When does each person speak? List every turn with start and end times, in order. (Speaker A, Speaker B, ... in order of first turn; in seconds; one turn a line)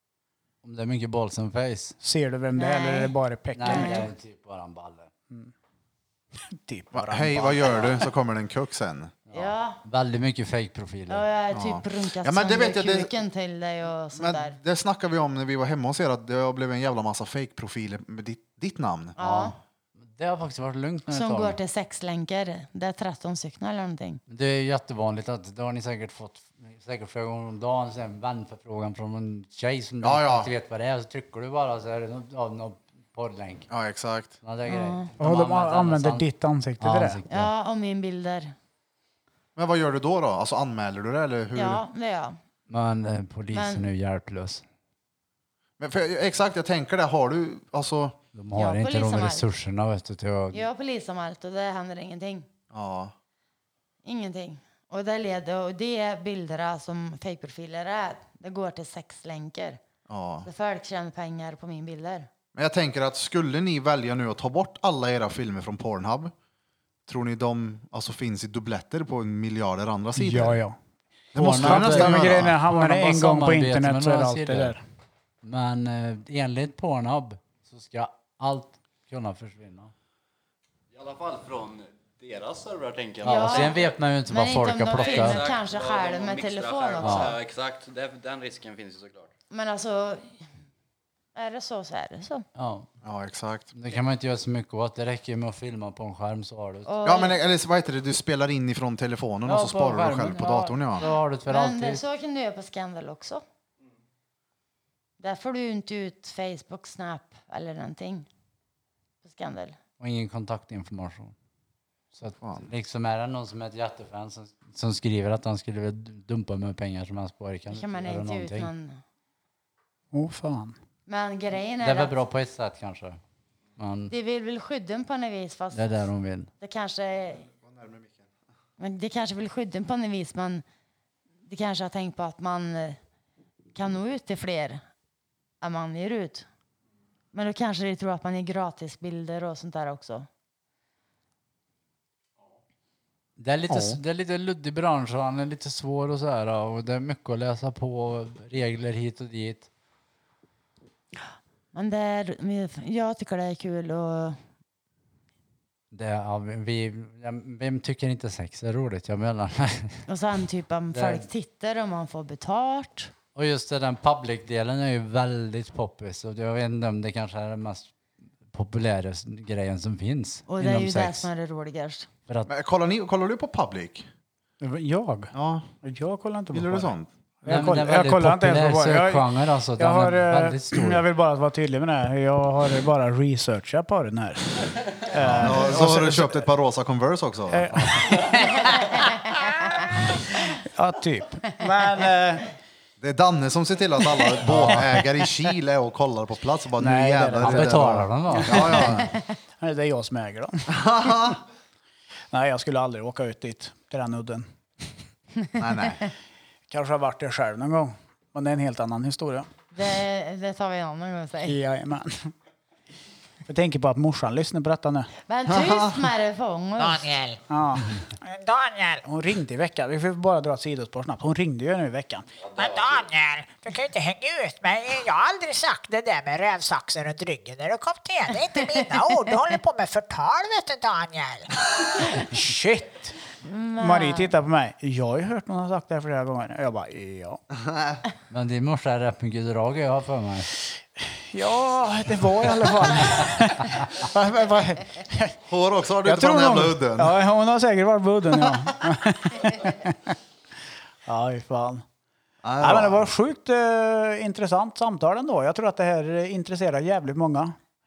Speaker A: 0.6-2.0
Speaker B: 2.0-4.1
Speaker C: 2.6-3.1
Speaker A: 3.6-5.1
Speaker C: 3.6-4.1
Speaker B: 6.5-8.0
Speaker D: 6.9-9.2
Speaker A: 9.3-11.2
Speaker C: 9.3-9.8
Speaker C: 11.1-14.6
Speaker D: 11.5-13.1
Speaker D: 14.2-19.2
Speaker C: 19.2-19.6
Speaker A: 19.2-21.6
Speaker C: 21.1-24.2
Speaker A: 24.3-33.7
Speaker D: 30.0-30.5
Speaker D: 33.7-34.4
Speaker A: 34.4-36.3
Speaker C: 34.7-35.1
Speaker B: 35.2-37.2
Speaker A: 36.8-37.5
Speaker C: 37.3-38.5
Speaker D: 39.6-41.8
Speaker C: 41.5-42.4
Speaker A: 42.7-44.6
Speaker C: 43.5-43.9
Speaker D: 45.8-48.2
Speaker A: 48.4-50.7
Speaker C: 48.5-49.5
Speaker C: 50.5-52.5
Speaker D: 52.7-53.1
Speaker C: 54.0-59.8
Speaker D: 60.1-60.5
Speaker C: 60.5-62.3
Speaker D: 62.5-66.3
Speaker D: 67.1-70.6
Speaker B: 70.2-70.8
Speaker D: 71.3-72.5
Speaker A: 71.4-74.8
Speaker B: 71.4-74.8
Speaker A: 75.4-79.9
Speaker E: 80.9-83.9
Speaker A: 83.2-85.5
Speaker C: 83.2-87.4
Speaker E: 84.9-89.3
Speaker A: 87.0-87.4
Speaker C: 89.5-90.4
Speaker C: 91.3-92.5
Speaker A: 92.6-92.9
Speaker D: 93.0-93.7
Speaker A: 93.7-96.9
Speaker C: 96.9-97.4
Speaker D: 97.0-101.1
Speaker A: 99.5-102.0
Speaker C: 101.0-103.4
Speaker C: 105.2-108.3
Speaker C: 109.2-109.8
Speaker A: 110.0-111.3
Speaker A: 112.1-118.7
Speaker D: 112.4-112.7
Speaker C: 117.7-119.0
Speaker B: 120.1-120.8
Speaker C: 121.1-122.1
Speaker A: 121.8-123.2
Speaker A: 123.8-124.1
Speaker C: 124.1-126.0
Speaker A: 125.7-126.5
Speaker C: 126.6-127.5
Speaker D: 127.7-128.1
Speaker C: 128.8-130.6
Speaker C: 131.5-133.0
Speaker C: 133.8-134.8
Speaker C: 135.6-136.5
Speaker C: 137.3-140.3
Speaker A: 143.4-149.7
Speaker D: 143.7-144.0
Speaker C: 151.7-154.4
Speaker A: 155.9-160.1
Speaker C: 160.1-163.1
Speaker A: 160.9-161.3
Speaker A: 163.3-167.9
Speaker A: 168.5-171.3
Speaker C: 170.5-172.1
Speaker D: 172.5-174.1
Speaker B: 174.6-179.3
Speaker D: 175.3-175.7
Speaker D: 176.5-177.1
Speaker A: 177.5-181.1
Speaker B: 179.8-186.4
Speaker D: 185.2-188.0
Speaker A: 185.3-185.6
Speaker B: 187.5-189.2
Speaker B: 189.8-192.5
Speaker D: 193.0-199.2
Speaker B: 194.5-195.0
Speaker A: 194.5-194.8
Speaker B: 196.8-198.8
Speaker A: 197.4-199.0
Speaker B: 199.6-200.8
Speaker D: 200.7-201.4
Speaker B: 202.3-204.5
Speaker D: 205.6-206.0
Speaker B: 206.7-209.5
Speaker C: 209.7-211.6
Speaker B: 211.4-212.3
Speaker B: 213.5-215.1
Speaker C: 215.3-217.1
Speaker D: 215.5-216.1
Speaker F: 216.8-217.4
Speaker B: 217.5-218.0
Speaker F: 218.2-219.0
Speaker B: 219.0-222.3
Speaker E: 222.5-223.0
Speaker F: 222.6-231.5
Speaker B: 232.1-233.2
Speaker C: 233.4-234.3
Speaker B: 233.8-237.4
Speaker D: 237.5-238.0
Speaker A: 238.3-240.5
Speaker B: 241.1-245.4
Speaker D: 245.5-247.2
Speaker B: 246.0-250.1
Speaker B: 251.1-251.8
Speaker D: 252.4-253.1
Speaker B: 252.6-257.6